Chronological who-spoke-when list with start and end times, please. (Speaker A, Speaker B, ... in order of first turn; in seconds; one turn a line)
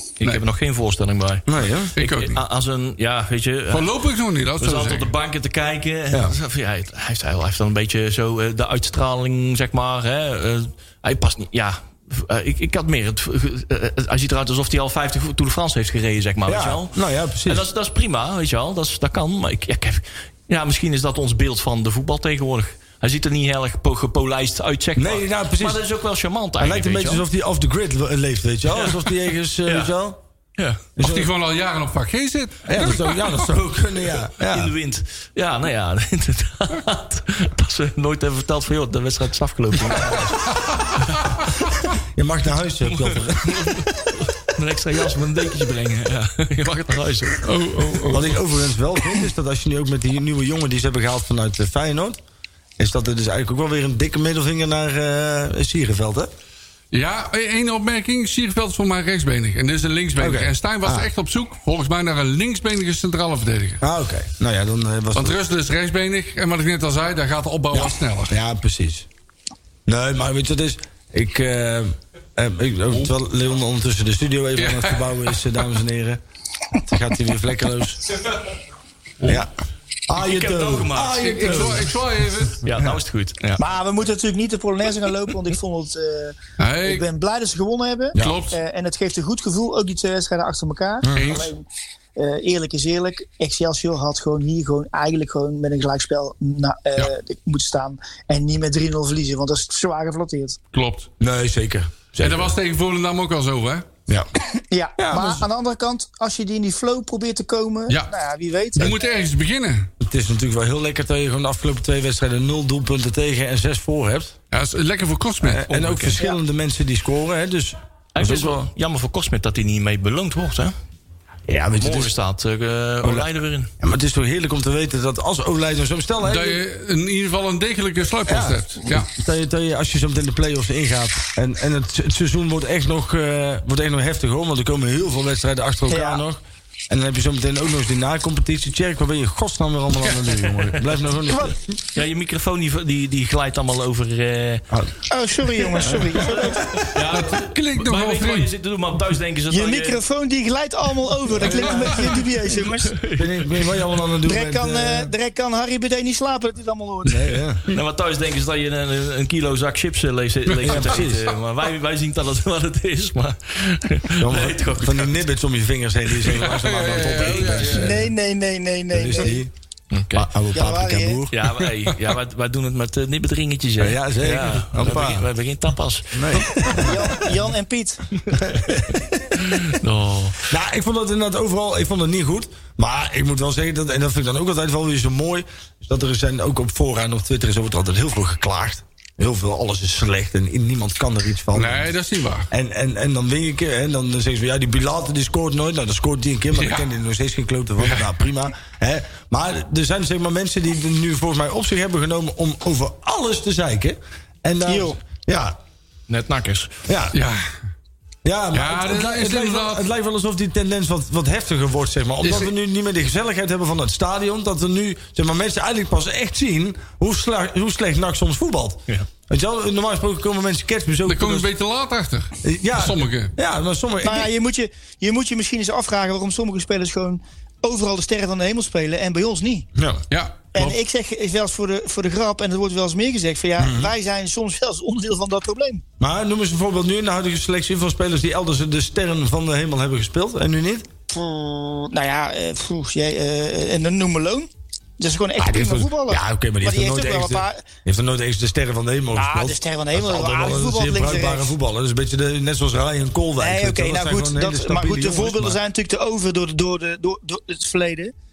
Speaker A: 0.2-3.9
Speaker B: 1.5-1.9
Speaker C: 2.0-2.4
Speaker C: 3.7-5.1
Speaker A: 4.6-27.2
Speaker B: 16.4-17.6
Speaker B: 25.0-25.8
Speaker B: 26.6-30.2
Speaker A: 28.7-29.0
Speaker A: 29.6-29.9
Speaker A: 30.6-30.8
Speaker B: 31.0-31.3
Speaker C: 31.0-33.5
Speaker B: 32.6-34.7
Speaker A: 34.4-40.4
Speaker C: 40.1-41.5
Speaker B: 41.9-43.8
Speaker A: 42.9-48.1
Speaker C: 47.4-48.3
Speaker B: 48.1-52.2
Speaker B: 52.8-56.3
Speaker C: 56.9-63.8
Speaker B: 60.2-61.1
Speaker B: 63.8-65.4
Speaker C: 65.1-68.3
Speaker B: 67.7-69.1
Speaker B: 69.8-76.2
Speaker C: 74.6-75.2
Speaker B: 76.8-78.2
Speaker B: 79.2-79.5
Speaker B: 80.1-82.0
Speaker A: 80.1-81.8
Speaker C: 81.2-82.6
Speaker A: 82.6-83.6
Speaker D: 83.6-91.6
Speaker C: 86.6-87.0
Speaker B: 88.1-88.4
Speaker C: 88.2-88.6
Speaker B: 91.0-91.4
Speaker C: 91.1-91.5
Speaker D: 92.2-100.6
Speaker C: 100.7-101.1
Speaker B: 101.2-102.5
Speaker C: 102.2-103.9
Speaker D: 104.6-109.0
Speaker B: 105.0-105.4
Speaker C: 108.7-109.9
Speaker B: 110.0-114.3
Speaker C: 114.5-116.0
Speaker B: 115.4-118.7
Speaker A: 115.7-116.2
Speaker A: 118.1-120.7
Speaker B: 121.5-122.1
Speaker A: 121.8-123.7
Speaker B: 123.0-123.3
Speaker B: 123.8-126.6
Speaker C: 126.2-129.1
Speaker B: 128.3-141.6
Speaker D: 135.9-136.2
Speaker A: 141.9-144.6
Speaker D: 145.1-146.9
Speaker B: 145.9-146.3
Speaker A: 146.1-150.0
Speaker C: 147.1-148.5
Speaker D: 149.5-153.0
Speaker B: 151.4-151.8
Speaker A: 151.4-153.8
Speaker C: 151.5-151.8
Speaker B: 153.2-155.1
Speaker D: 154.2-157.4
Speaker B: 157.0-157.6
Speaker A: 157.7-165.2
Speaker B: 160.6-161.3
Speaker C: 160.7-161.0
Speaker B: 164.2-168.1
Speaker C: 166.2-168.1
Speaker D: 167.7-169.4
Speaker B: 168.9-169.5
Speaker A: 169.9-170.3
Speaker B: 170.1-171.5
Speaker D: 170.5-171.2
Speaker A: 171.3-176.9
Speaker B: 173.8-175.2
Speaker B: 176.1-177.1
Speaker D: 176.7-178.2
Speaker B: 178.3-179.4
Speaker A: 179.3-180.4
Speaker B: 180.5-191.9
Speaker C: 191.5-192.5
Speaker B: 192.5-205.6
Speaker C: 196.6-196.8
Speaker D: 204.7-205.0
Speaker A: 206.1-206.8
Speaker B: 206.9-207.2
Speaker C: 207.1-207.5
Speaker B: 208.2-221.5
Speaker C: 208.5-209.9
Speaker C: 212.2-212.5
Speaker C: 221.1-223.3
Speaker B: 222.4-224.3
Speaker D: 224.0-229.7
Speaker B: 229.7-230.0
Speaker C: 230.1-230.8
Speaker D: 230.5-235.8
Speaker B: 233.6-233.9
Speaker B: 236.0-240.9
Speaker D: 241.1-247.7
Speaker B: 245.4-255.6
Speaker D: 249.1-251.5
Speaker D: 253.4-258.1